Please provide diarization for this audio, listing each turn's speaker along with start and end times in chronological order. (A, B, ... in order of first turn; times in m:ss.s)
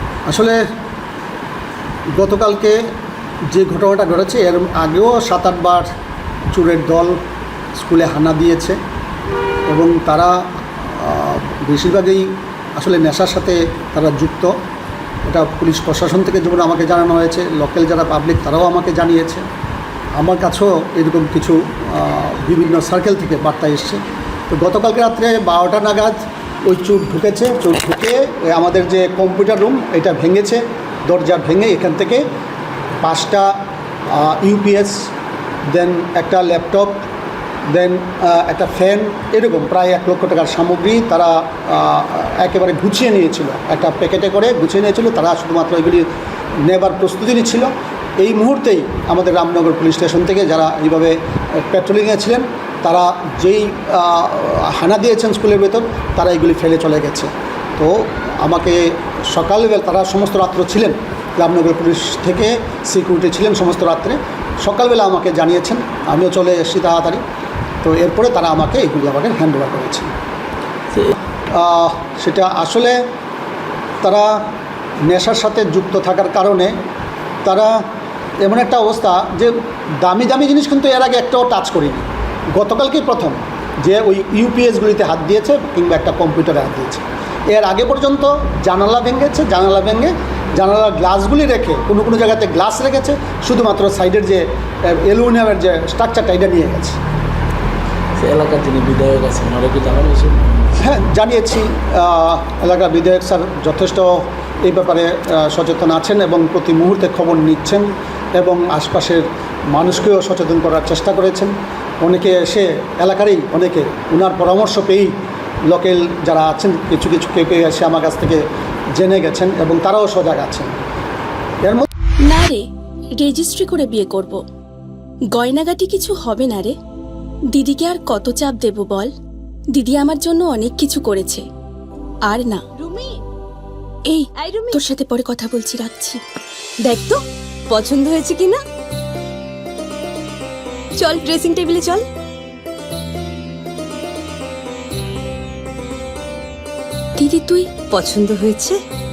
0:00.3-0:00.6 A
0:02.1-0:02.8 A
0:03.4-0:05.9 A
0:06.5-0:07.2 A
0:07.8-0:08.8 A
0:09.7-0:14.5 A
0:15.3-0:19.4 A
0:20.2-0:32.2 A
0:33.0-0:33.6 A
0:34.1-0:35.1 A
0:35.7-0:37.0 A
0:37.7-0:46.0 A
0:46.6-1:07.2 A
1:07.8-1:10.1 A
1:10.9-1:11.2 B
1:11.5-1:13.0 A
1:14.0-1:14.5 A
1:15.0-1:16.7 A
1:17.4-1:17.8 A
1:18.4-1:37.0 A
1:38.2-1:40.6 B
1:40.8-1:55.1 A
1:55.7-1:58.4 A
1:59.0-2:00.7 A
2:02.2-2:02.7 C
2:03.2-2:04.4 C
2:05.3-2:06.8 C
2:07.5-2:09.1 C
2:09.7-2:11.4 C
2:12.3-2:12.6 C
2:14.1-2:16.2 C
2:17.7-2:18.6 D
2:21.1-2:22.0 D
2:27.2-2:27.7 C
2:27.9-2:28.6 D